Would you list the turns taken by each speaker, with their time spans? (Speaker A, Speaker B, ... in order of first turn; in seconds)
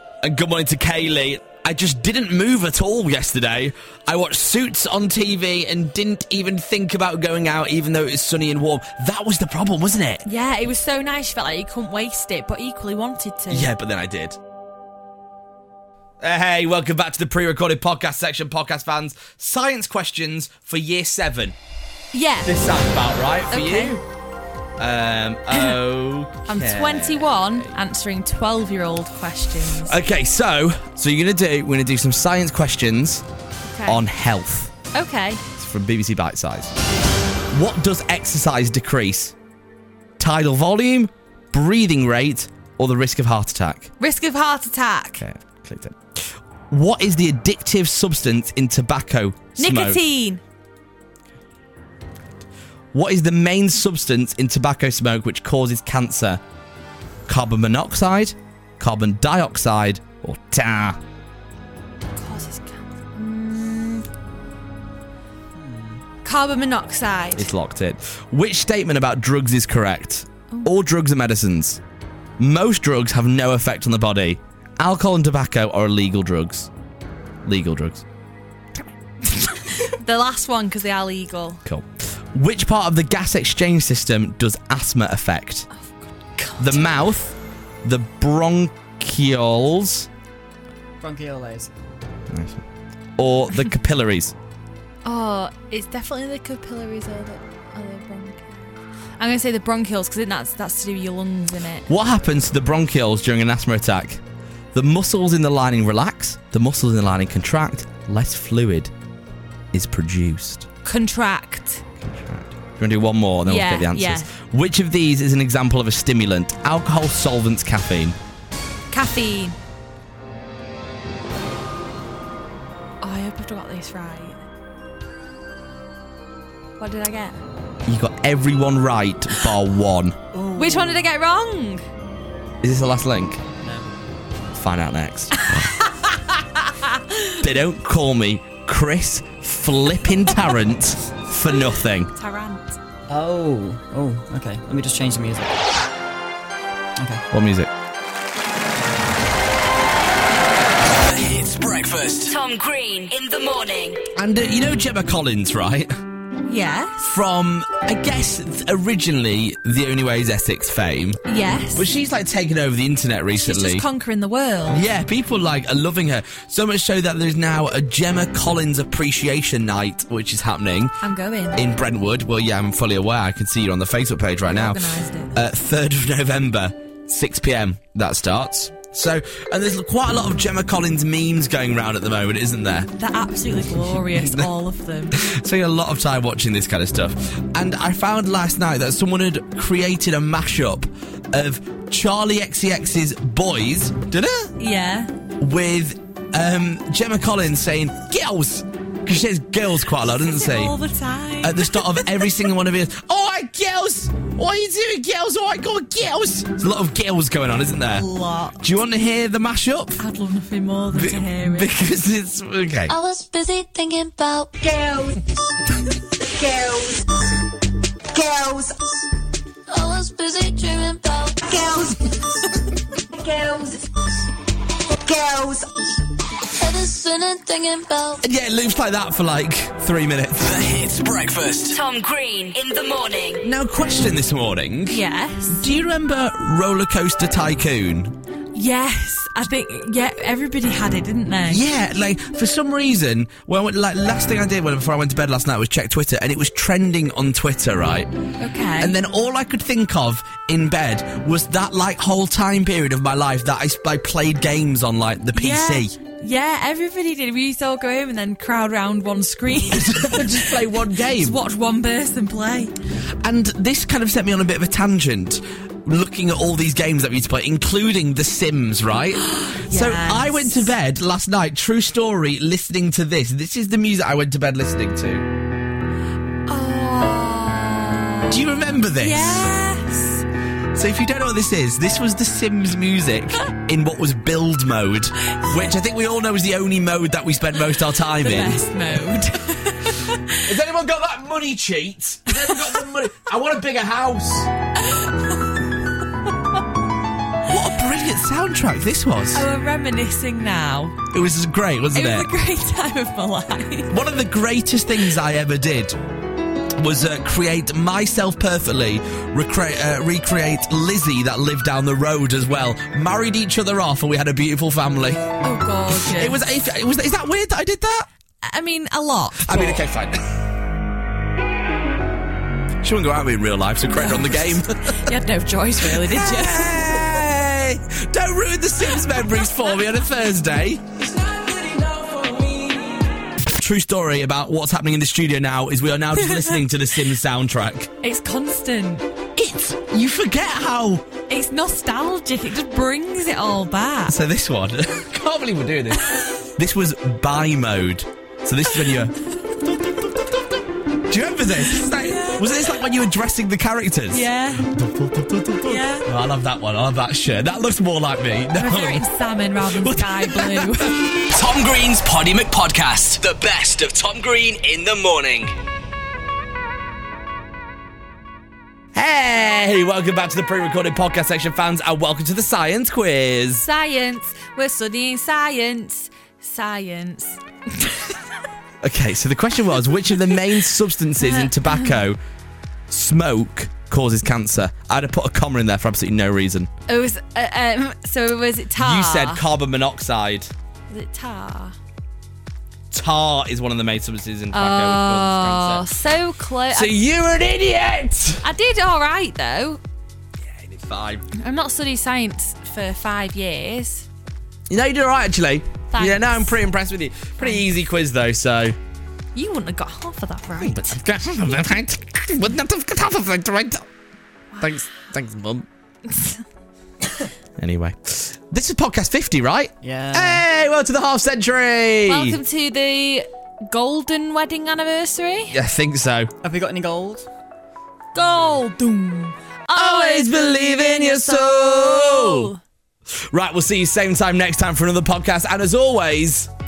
Speaker A: 0.2-10.2, 13.5-14.4, 16.2-21.6, 22.4-24.0, 24.8-27.8, 29.8-33.2, 33.9-34.7, 35.6-36.8, 37.5-39.4, 40.2-43.9, 45.2-50.0, 52.9-56.4, 57.3-61.0, 67.4-71.8, 72.4-76.7, 77.4-78.0, 81.7-85.7, 86.6-90.1, 92.3-92.6, 93.2-94.3, 101.9-104.2, 104.7-108.9, 109.7-110.7, 112.0-118.2, 127.9-130.2, 132.6-133.4, 134.5-135.8, 137.4-142.1, 147.3-147.7, 154.2-155.9, 157.0-161.2, 161.7-163.9, 164.7-171.0, 171.6-182.9, 184.1-184.5, 185.1-194.6, 195.4-200.8, 201.4-208.1, 208.6-210.0, 210.9-212.9, 228.2-230.6, 233.4-238.2, 241.4-248.1, 248.8-255.9, 259.7-261.4, 263.2-275.3, 278.3-279.5, 280.7-288.6, 290.4-294.5, 297.4-299.5, 301.1-302.3, 303.9-306.0, 306.7-315.3, 316.0-318.1, 319.4-320.2, 322.8-325.1, 325.8-331.0, 333.4-337.9, 339.4-341.1, 344.1-359.1, 359.6-360.8, 368.9-373.7, 378.8-382.2, 382.9-386.7, 388.8-390.5, 392.9-395.9, 396.7-398.4, 400.4-401.3, 404.7-408.8, 410.6-413.9, 414.6-415.7, 417.6-422.4, 425.5-426.3, 429.8-432.5, 433.3-436.5
Speaker B: 10.2-13.7, 22.1-22.6, 23.5-24.0, 25.5-25.8, 26.4-30.0, 33.7-34.0, 34.9-35.4, 44.0-45.2, 49.6-50.4, 62.2-64.1, 66.2-67.5, 79.4-81.6, 85.8-86.9, 95.0-101.9, 110.8-111.8, 113.5-114.3, 118.9-119.6, 123.0-124.4, 126.8-127.4, 130.6-131.8, 135.5-136.1, 136.8-137.3, 142.1-142.8, 156.5-157.1, 161.3-162.0, 163.3-164.8, 171.0-171.7, 174.5-175.4, 183.0-185.2, 194.6-195.1, 200.0-202.2, 207.9-208.7, 210.0-211.8, 234.9-235.7, 238.5-241.7, 248.4-249.0, 255.3-262.7, 269.2-270.7, 276.5-280.2, 285.3-285.8, 288.2-290.4, 294.8-295.6, 299.3-301.0, 301.9-303.9, 315.4-316.4, 318.4-319.9, 323.9-327.1, 336.2-336.6, 338.0-339.1, 341.3-344.2, 351.7-352.7, 354.1-354.7, 355.6-356.1, 358.5-361.0, 373.6-378.1, 381.2-381.5, 386.9-389.4, 390.9-391.8, 394.5-397.0, 398.4-399.8, 401.3-404.1, 405.9-406.6, 407.4-407.7, 409.4-411.0, 416.1-416.4, 422.1-425.6, 428.1-432.6
Speaker C: 65.5-66.0, 91.0-91.7, 130.3-131.1, 133.6-133.9, 143.1-145.7, 147.0-147.2, 419.8-420.4, 426.4-427.3
Speaker D: 150.8-152.3, 230.4-231.8, 331.1-333.0, 361.2-365.5
Speaker E: 152.3-154.1, 231.7-233.5
Speaker F: 212.9-215.3, 216.2-217.1, 218.1-219.0, 219.7-222.5, 223.1-224.1, 225.0-225.7, 226.5-228.2